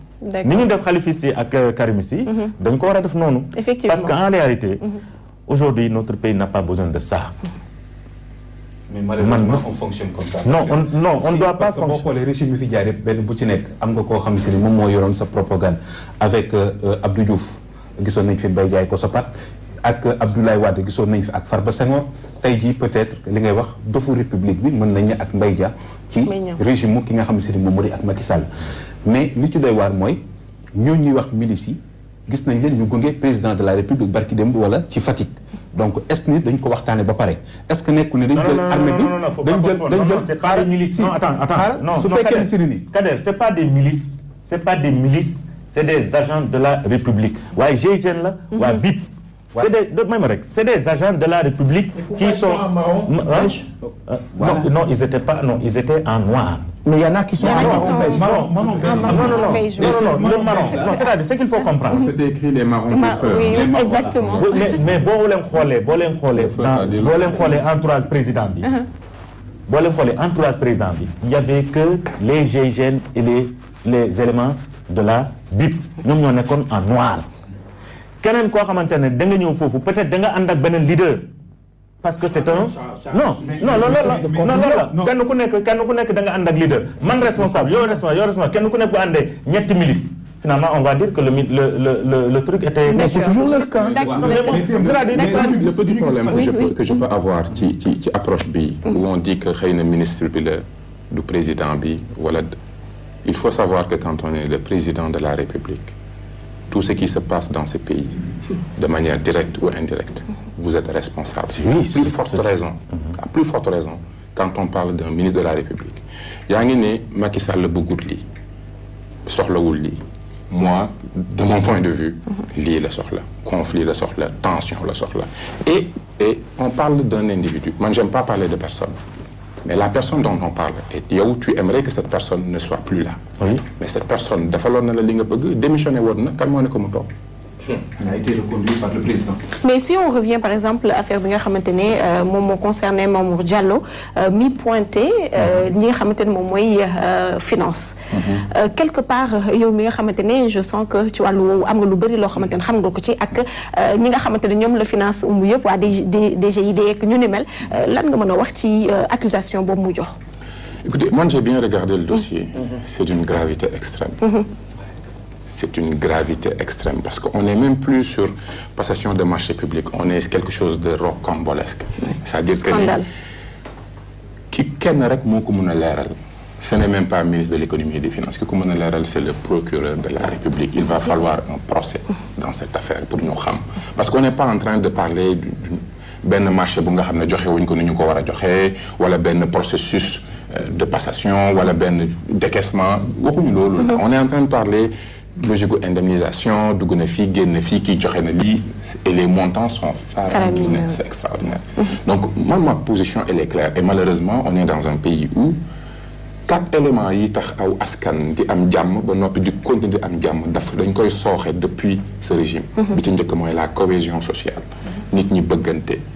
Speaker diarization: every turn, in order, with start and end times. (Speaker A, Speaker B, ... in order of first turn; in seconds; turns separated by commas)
Speaker A: 0.2-0.7, Speaker B: 0.4-4.8, Speaker A: 3.5-4.2, Speaker B: 5.5-7.3, Speaker C: 8.9-30.2, Speaker B: 9.2-9.6, Speaker B: 10.4-12.1, Speaker A: 26.2-26.6, Speaker C: 30.7-42.9, Speaker B: 38.3-53.6, Speaker D: 52.1-53.6, Speaker C: 53.6-54.7, Speaker B: 54.1-56.7, Speaker D: 56.8-58.5, Speaker C: 57.4-61.1, Speaker A: 57.4-60.2, Speaker B: 57.4-62.1, Speaker E: 61.9-63.6, Speaker A: 62.9-64.8, Speaker C: 63.4-64.8, Speaker B: 64.4-68.8, Speaker E: 66.4-67.1, Speaker C: 66.5-67.7, Speaker B: 69.7-77.3, Speaker B: 78.2-81.3, Speaker B: 82.0-95.7, Speaker C: 83.0-85.1, Speaker C: 87.1-87.8, Speaker A: 92.9-93.4, Speaker D: 92.9-94.1, Speaker C: 93.9-96.6, Speaker A: 94.0-95.0, Speaker E: 95.1-102.5, Speaker A: 96.3-96.7, Speaker E: 103.2-105.9, Speaker E: 106.7-108.2, Speaker E: 108.7-118.2, Speaker B: 111.5-112.5, Speaker E: 119.2-129.0, Speaker E: 129.6-133.2, Speaker B: 133.4-133.6, Speaker E: 133.8-137.1, Speaker C: 137.8-139.4, Speaker A: 139.6-160.1, Speaker C: 148.1-148.4, Speaker E: 160.8-164.2, Speaker E: 165.5-173.0, Speaker A: 172.5-173.1, Speaker E: 174.5-205.6, Speaker A: 200.3-201.0, Speaker E: 206.5-216.0